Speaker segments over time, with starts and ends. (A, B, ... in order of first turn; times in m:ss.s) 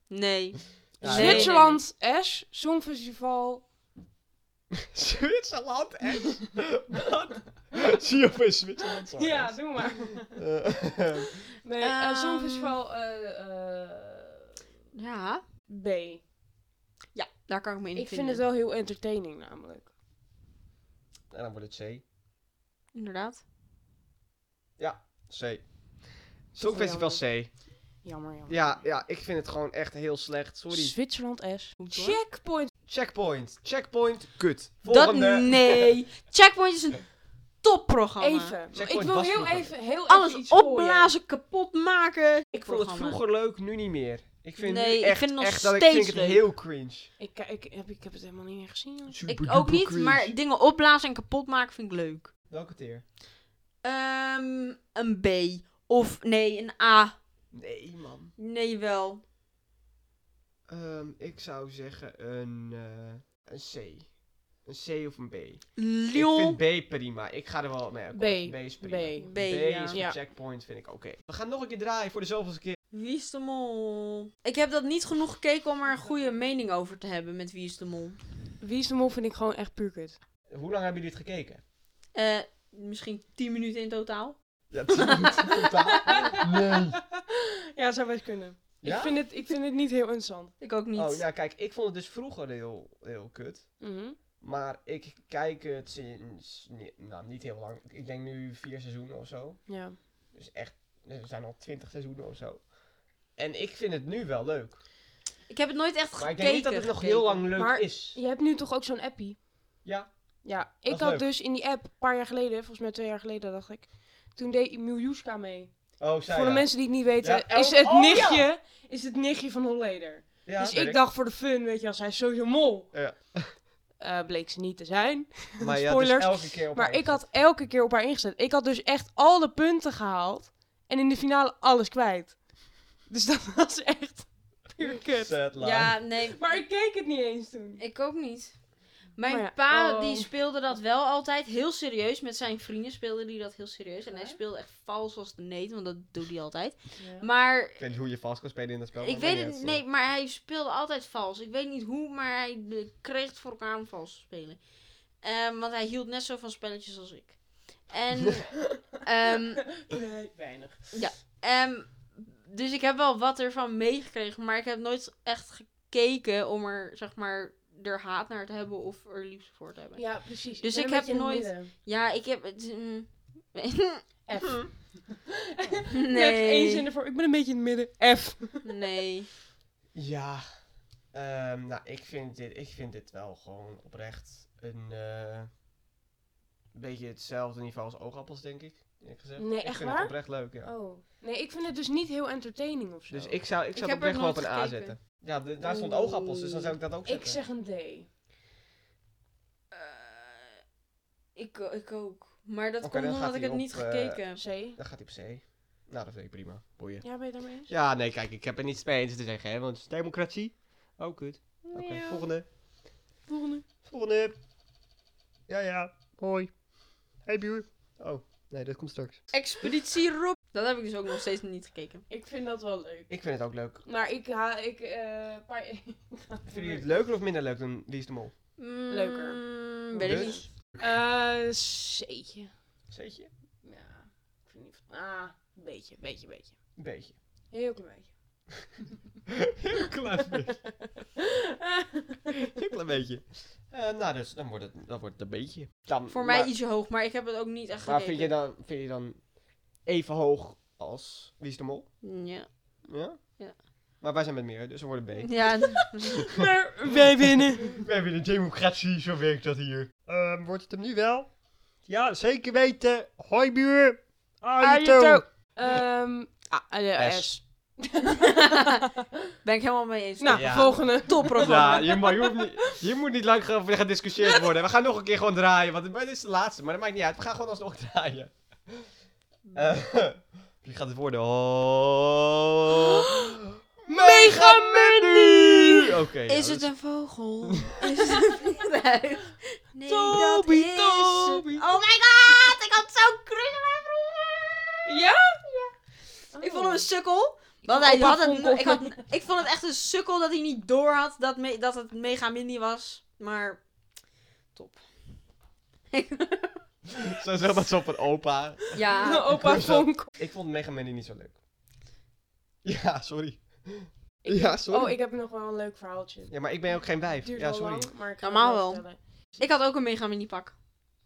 0:00.1-0:01.8 A
0:01.0-0:01.6 B
0:01.0-0:03.6 C
0:04.7-0:11.3 B
0:09.1-0:10.4 C
0:11.6-0:14.5 C
0:11.8-0:12.8 A
0:14.9-0:15.4 A
0:15.7-0:16.2 C
0:17.1-0:18.4 A
0:17.9-0:19.9 C
0:21.3-0:22.0 B
0:22.9-0:23.4 A
0:24.8-0:25.7 B
0:26.5-0:27.5 B
0:26.6-0:27.2 C
0:28.0-0:28.8 C
0:28.5-0:31.0 B
0:30.7-0:32.7 C
0:31.8-0:32.2 A
0:32.9-0:36.0 B
0:34.8-0:37.1 A
0:37.6-0:38.6 A
0:38.2-0:41.1 C
0:38.7-0:39.8 B
0:40.1-0:43.2 A
0:42.6-0:47.1 B
0:44.6-0:46.4 A
0:47.2-0:49.2 C
0:49.1-0:50.3 B
0:49.3-0:52.3 A
0:52.5-0:53.0 B
0:53.8-0:57.2 A
0:57.5-0:58.4 B
0:58.4-0:59.2 A
1:00.7-1:12.8 B
1:05.8-1:06.6 A
1:08.1-1:10.2 C
1:09.2-1:10.0 A
1:12.9-1:18.3 A
1:18.6-1:20.2 C
1:20.5-1:21.6 B
1:22.1-1:24.4 A
1:24.7-1:27.0 B
1:25.0-1:26.3 A
1:26.1-1:30.6 C
1:28.8-1:29.2 B
1:30.6-1:31.2 A
1:31.0-1:33.8 B
1:33.8-1:34.2 C
1:34.4-1:42.7 B
1:39.7-1:40.0 C
1:43.3-1:44.8 B
1:45.5-1:47.4 A
1:46.2-1:48.2 B
1:47.6-1:49.5 C
1:49.8-1:50.1 B
1:50.4-1:55.7 C
1:50.9-1:51.3 B
1:56.0-1:58.5 B
1:56.3-2:02.9 C
2:00.4-2:01.0 B
2:02.9-2:03.6 B
2:04.0-2:12.4 C
2:05.6-2:07.3 B
2:13.0-2:15.4 C
2:15.2-2:16.0 B
2:15.6-2:16.6 A
2:16.2-2:17.8 C
2:17.8-2:18.6 A
2:19.2-2:27.8 A
2:19.3-2:20.3 C
2:24.0-2:24.4 C
2:27.0-2:27.3 C
2:27.8-2:29.8 B
2:29.0-2:34.6 A
2:35.2-2:39.9 A
2:39.7-2:41.0 C
2:40.9-2:54.7 A
2:50.0-2:51.7 C
2:54.3-2:58.7 C
2:55.9-2:56.9 A
2:58.6-2:59.3 A
3:00.0-3:00.4 B
3:01.1-3:05.5 B
3:06.7-3:10.7 B
3:09.4-3:13.4 C
3:13.1-3:17.4 B
3:13.8-3:15.0 A
3:15.6-3:16.8 A
3:17.0-3:18.1 C
3:19.7-3:20.6 A
3:21.4-3:24.4 A
3:22.8-3:24.2 B
3:24.4-3:24.8 C
3:24.8-3:27.1 B
3:27.0-3:27.7 C
3:27.7-3:32.5 B
3:31.6-3:32.2 A
3:33.3-3:33.6 C
3:33.9-3:34.4 B
3:35.5-3:36.5 B
3:37.3-3:39.3 B
3:39.3-3:42.0 A
3:42.1-3:43.1 C
3:43.1-3:43.8 B
3:43.8-3:46.9 C
3:46.5-3:48.4 B
3:48.6-3:50.5 A
3:48.9-3:52.5 C
3:50.0-3:50.5 B
3:52.9-3:53.3 B
3:53.6-3:56.6 C
3:56.8-3:57.2 B
3:57.5-3:58.1 C
3:59.3-4:00.6 B
4:01.2-4:02.5 C
4:02.4-4:06.5 B
4:06.1-4:08.3 A
4:07.8-4:09.2 B
4:09.8-4:11.9 B
4:12.0-4:12.5 A
4:12.9-4:13.2 B
4:14.0-4:16.4 B
4:15.2-4:16.4 A
4:16.3-4:17.8 C
4:17.2-4:21.3 B
4:21.8-4:25.8 B
4:24.6-4:29.1 C
4:27.0-4:27.3 B
4:28.3-4:28.9 A
4:29.4-4:32.1 A
4:30.2-4:32.8 C
4:30.3-4:38.9 B
4:39.6-4:46.7 B
4:42.8-4:43.4 C
4:43.9-4:45.9 C
4:46.3-4:54.9 A
4:47.4-4:47.9 B
4:49.8-4:51.8 C
4:54.9-4:55.4 C
4:56.3-4:56.9 C
4:56.4-5:03.6 A
4:57.6-4:59.0 C
5:04.5-5:04.9 A
5:05.9-5:06.9 A
5:07.0-5:11.4 B
5:08.7-5:09.4 A
5:09.0-5:10.1 C
5:12.6-5:15.0 B
5:14.2-5:16.3 C
5:16.3-5:17.9 B
5:17.2-5:19.0 C
5:18.2-5:18.8 A
5:19.4-5:20.6 A